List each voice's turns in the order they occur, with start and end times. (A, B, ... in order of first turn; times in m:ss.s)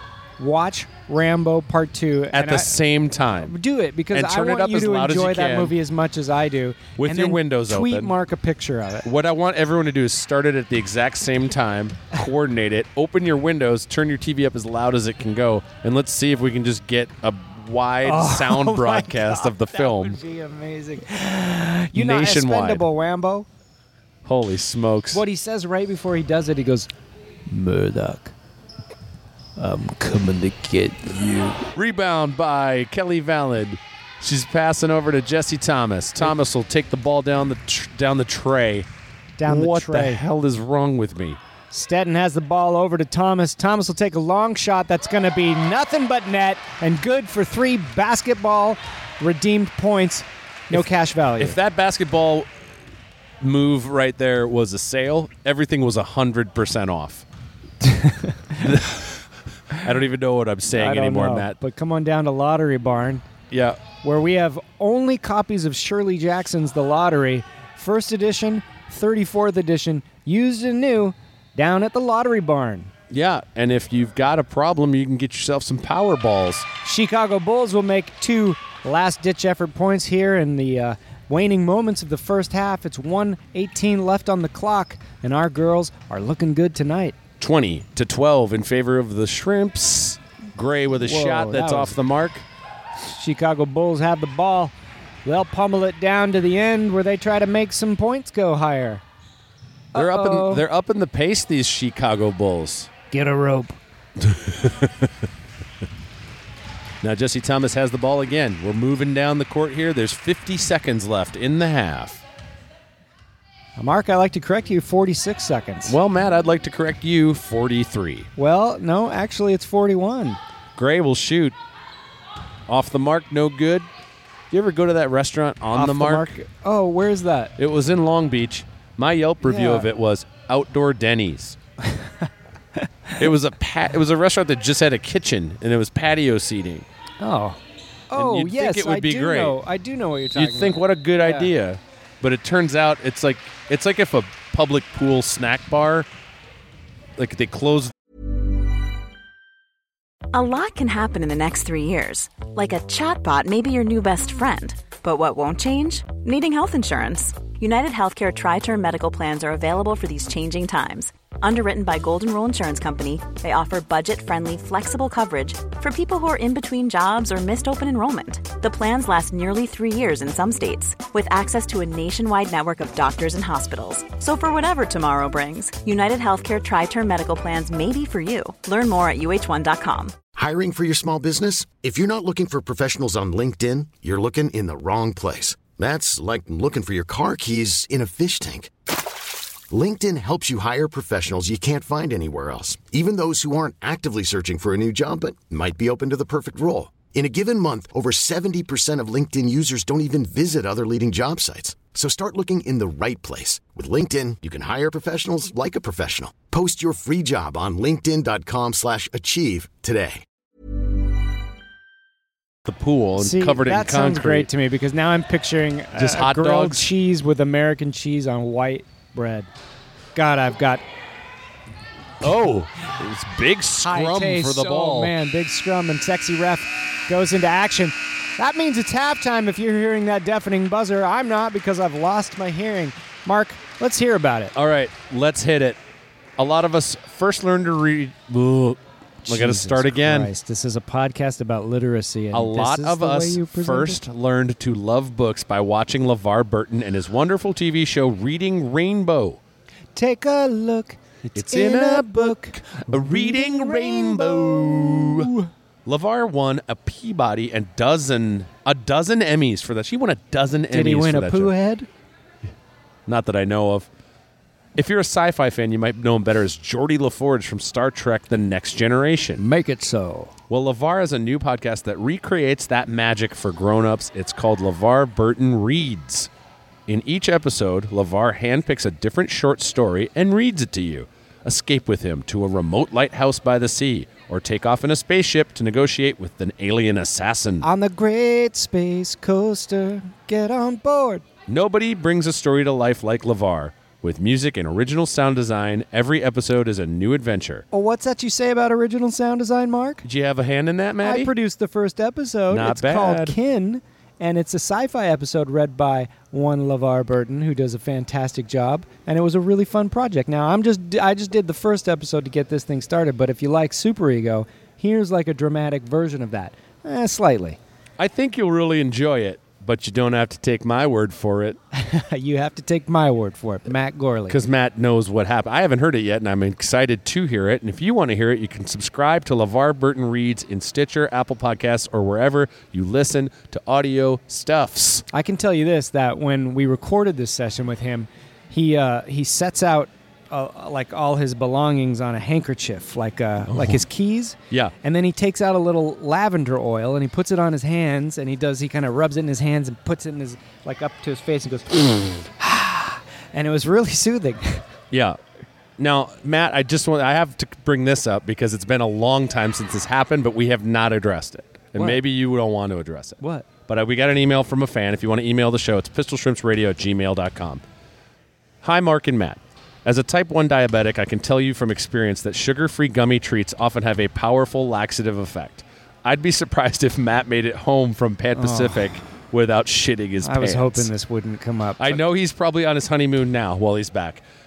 0:00.4-0:02.8 A
0:02.3-0:03.5 B
0:03.4-0:09.0 A
0:04.1-0:05.8 B
0:07.0-0:08.1 B
0:09.0-0:20.2 B
0:18.0-0:23.4 A
0:21.9-0:22.8 B
0:24.2-0:25.2 B
0:25.1-0:26.9 A
0:27.5-0:28.3 A
0:29.6-0:31.7 A
0:31.7-0:38.9 B
0:39.4-0:40.2 A
0:39.4-0:41.4 B
0:41.7-0:51.6 A
0:51.4-0:52.5 B
0:53.4-0:57.2 B
0:57.8-0:58.8 A
0:58.6-1:01.6 B
1:00.7-1:03.2 A
1:03.5-1:03.8 B
1:04.0-1:12.9 A
1:13.1-1:16.6 B
1:16.8-1:27.2 A
1:27.4-1:32.4 B
1:30.9-1:32.0 A
1:33.0-1:34.7 A
1:35.2-1:39.0 A
1:39.9-1:40.6 A
1:39.9-1:42.9 B
1:43.1-1:43.8 A
1:44.2-1:45.1 B
1:47.0-1:52.2 B
1:53.8-1:56.0 A
1:55.8-1:58.3 B
1:58.4-2:00.4 A
2:00.8-2:01.6 B
2:02.7-2:03.9 B
2:04.5-2:06.3 B
2:05.7-2:07.5 A
2:07.6-2:11.6 B
2:09.4-2:09.9 A
2:11.8-2:12.2 A
2:13.2-2:16.8 B
2:17.2-2:21.5 A
2:18.1-2:19.6 B
2:20.3-2:26.1 B
2:27.2-2:27.9 B
2:30.3-3:00.1 C
3:00.3-3:08.7 D
3:09.7-3:30.2 D
3:32.6-3:34.5 B
3:33.2-3:39.5 A
3:35.9-3:36.9 B
3:40.1-3:40.8 A
3:42.2-3:45.1 B
3:43.8-3:54.5 A
3:54.5-3:55.8 B
3:56.4-4:00.3 B
3:59.2-4:04.0 A
4:02.3-4:09.4 B
4:09.9-4:15.5 A
4:11.3-4:15.3 B
4:15.8-4:21.5 B
4:20.7-4:21.9 A
4:23.0-4:23.9 B
4:24.7-4:29.4 B
4:29.4-4:30.3 A
4:30.5-4:36.3 B
4:36.9-4:47.7 B
4:47.6-4:51.2 A
4:51.5-4:57.6 B
4:57.7-5:00.0 A
5:00.0-5:01.3 B
5:01.0-5:17.6 A
5:02.5-5:03.4 B
5:18.0-5:21.6 B
5:21.7-5:24.4 A
5:24.3-5:35.0 B
5:35.1-5:54.6 A
5:43.5-5:43.8 B
5:54.9-5:55.2 B
5:55.8-6:07.6 B
6:01.7-6:02.0 A
6:03.2-6:03.5 A
6:08.6-6:20.9 B
6:18.3-6:18.9 A
6:20.2-6:22.0 A
6:21.8-6:24.2 B